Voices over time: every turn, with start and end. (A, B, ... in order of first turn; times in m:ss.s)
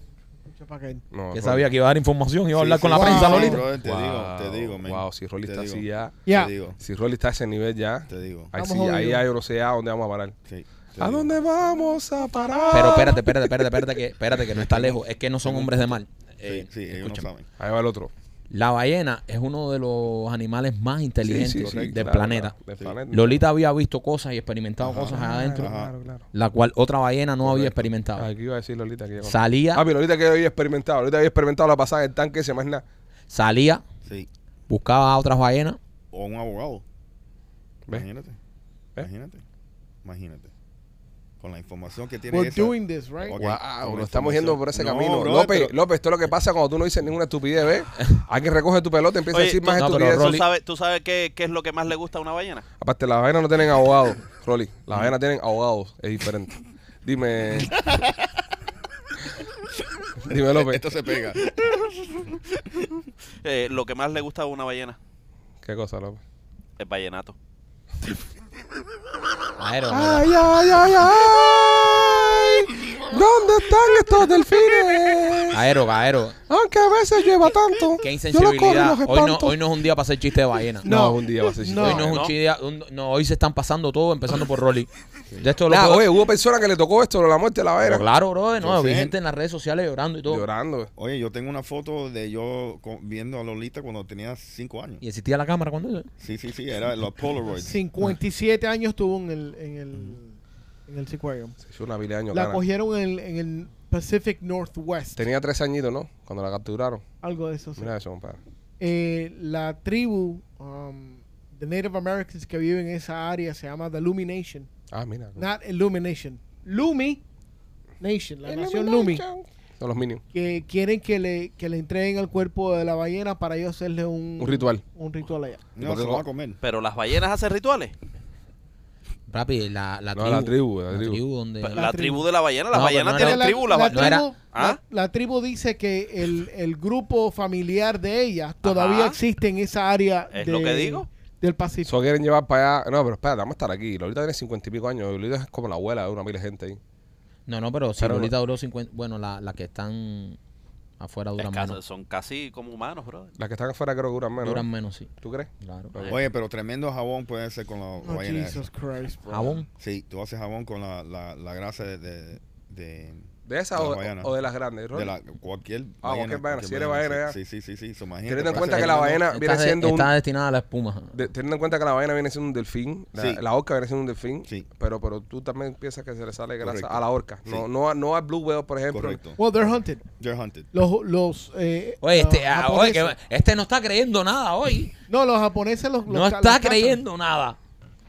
0:00.4-0:01.0 A
0:01.1-0:01.7 B
0:01.3-0:03.6 C
0:02.5-0:06.8 D
0:02.9-0:03.6 A
0:03.7-0:06.2 B
0:06.2-0:06.5 A
0:06.8-0:10.3 B
0:08.1-0:08.5 D
0:08.6-0:09.2 A
0:10.4-0:11.3 D
0:11.0-0:13.8 B
0:12.6-0:12.8 A
0:12.7-0:17.3 C
0:14.5-0:17.5 D
0:17.6-0:18.1 B
0:18.5-0:22.5 C
0:21.2-0:23.4 B
0:21.3-0:22.2 D
0:23.1-0:25.7 C
0:24.8-0:25.9 D
0:25.1-0:26.2 B
0:26.3-0:28.3 C
0:27.4-0:32.8 B
0:29.2-0:29.8 C
0:33.3-0:33.8 C
0:34.0-0:34.3 D
0:34.7-0:35.8 C
0:36.1-0:36.8 D
0:37.9-0:38.4 D
0:39.0-0:39.4 D
0:40.0-0:40.5 D
0:41.4-0:45.8 D
0:42.3-0:43.4 A
0:43.4-0:50.4 B
0:49.3-0:52.6 E
0:49.8-0:50.4 C
0:52.8-0:57.8 B
0:57.6-0:58.3 D
1:00.2-1:00.8 B
1:00.3-1:02.9 D
1:03.4-1:05.0 E
1:05.6-1:06.2 B
1:06.8-1:07.3 E
1:09.6-1:10.2 C
1:09.9-1:15.6 B
1:15.5-1:16.4 C
1:16.5-1:19.6 B
1:18.0-1:20.9 C
1:20.8-1:22.2 A
1:20.8-1:22.3 B
1:21.8-1:26.0 C
1:25.7-1:28.0 B
1:27.8-1:30.4 C
1:28.6-1:29.2 D
1:30.3-1:30.9 B
1:31.0-1:35.0 D
1:35.0-1:36.1 C
1:36.2-1:37.8 D
1:37.5-1:41.6 A
1:41.6-1:42.6 B
1:42.3-1:45.2 A
1:45.2-1:47.0 B
1:47.2-1:47.9 A
1:47.8-1:48.4 B
1:48.8-1:54.7 A
1:54.9-1:55.5 B
1:55.4-1:57.2 A
1:58.0-1:59.2 A
1:58.4-2:00.2 B
2:00.3-2:05.6 A
2:04.4-2:04.8 B
2:05.8-2:06.6 D
2:05.8-2:06.2 B
2:06.6-2:07.9 E
2:09.3-2:11.9 C
2:10.2-2:11.2 B
2:11.6-2:14.8 E
2:11.7-2:12.2 A
2:12.7-2:14.3 C
2:13.1-2:21.9 A
2:18.6-2:19.2 E
2:20.3-2:21.0 E
2:21.8-2:26.8 B
2:27.5-2:30.4 C
2:28.0-2:28.3 B
2:31.0-2:31.8 C
2:31.4-2:33.3 E
2:33.4-2:34.7 B
2:34.4-2:36.0 C
2:35.2-2:36.2 B
2:36.1-2:38.7 D
2:38.0-2:39.6 A
2:39.3-2:39.6 C
2:39.8-2:44.3 D
2:43.5-2:45.1 B
2:44.9-2:49.2 D
2:46.0-2:47.4 B
2:48.3-2:50.1 B
2:48.5-2:51.1 C
2:51.1-2:59.2 B
2:53.2-2:53.4 D
2:56.6-2:57.7 D
2:58.9-3:00.7 D
2:59.4-3:00.0 A
3:00.7-3:03.2 A
3:02.0-3:04.9 C
3:05.1-3:07.0 A
3:06.1-3:07.6 C